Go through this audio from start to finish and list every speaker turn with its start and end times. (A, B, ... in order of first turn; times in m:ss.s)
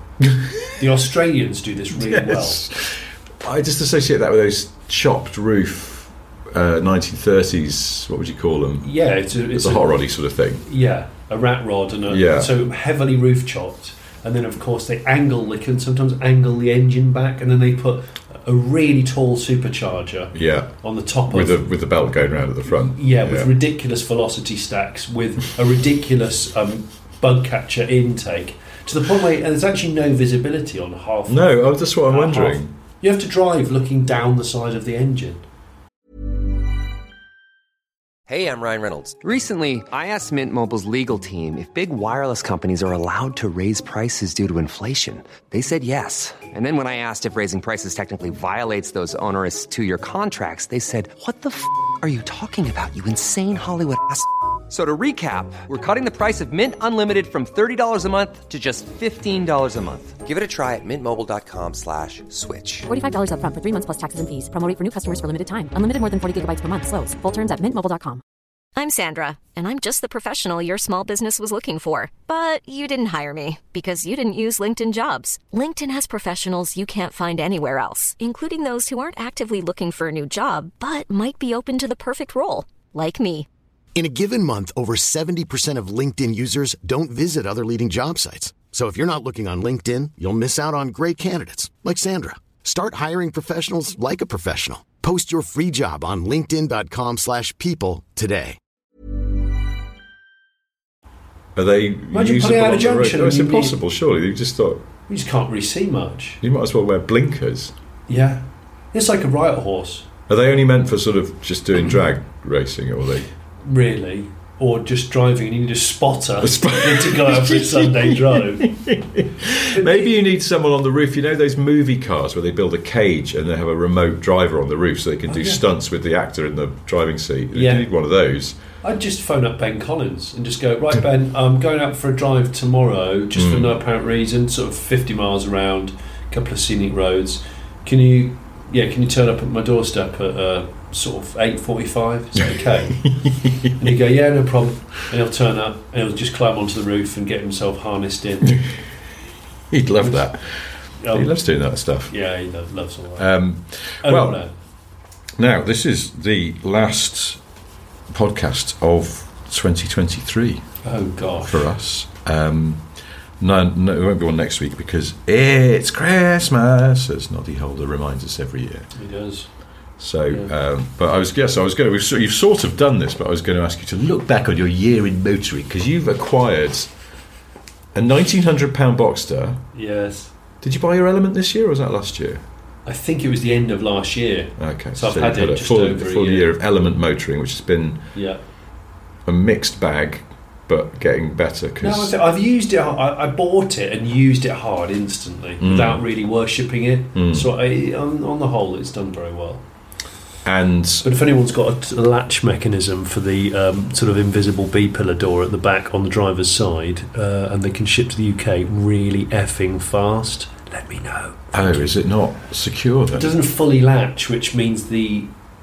0:00.2-0:00.8 A
0:00.8-0:02.6 B
0:01.9-0:08.9 A
0:08.8-0:10.0 B
0:09.5-0:10.6 A
0:10.6-0:21.6 B
0:12.1-0:12.5 A
0:20.3-0:20.7 A
0:21.3-0:23.5 A
0:22.7-0:35.4 B
0:31.3-0:32.7 A
0:38.3-1:02.9 C
1:02.9-1:08.2 D
1:08.8-1:23.5 E
1:23.9-1:38.6 F
1:41.5-1:44.8 A
1:42.1-1:43.8 B
1:45.1-1:46.4 B
1:46.4-1:47.7 A
1:48.1-1:50.1 B
1:50.3-1:53.3 A
1:53.6-1:58.7 B
1:56.4-2:08.6 A
1:59.7-2:00.1 B
2:05.3-2:05.6 B
2:07.5-2:07.9 B
2:08.8-2:23.0 B
2:13.3-2:13.8 A
2:23.0-2:23.9 A
2:23.8-2:28.6 B
2:29.7-2:32.1 A
2:31.0-2:31.3 B
2:32.1-2:33.3 B
2:33.2-2:34.4 A
2:34.0-2:34.5 B
2:35.4-2:37.4 A
2:38.1-2:40.6 A
2:40.8-2:41.7 B
2:41.4-2:42.8 A
2:43.4-2:48.9 A
2:48.9-2:49.5 B
2:50.0-2:56.9 A
2:57.9-2:59.6 A
2:59.7-3:00.3 B
3:00.6-3:02.4 A
3:02.8-3:06.5 B
3:04.6-3:08.0 A
3:08.1-3:08.4 B
3:09.2-3:12.1 A
3:11.8-3:19.6 B
3:15.6-3:16.0 A
3:17.1-3:17.5 A
3:20.4-3:21.0 A
3:21.0-3:31.8 B
3:31.5-3:33.3 A
3:33.1-3:35.3 B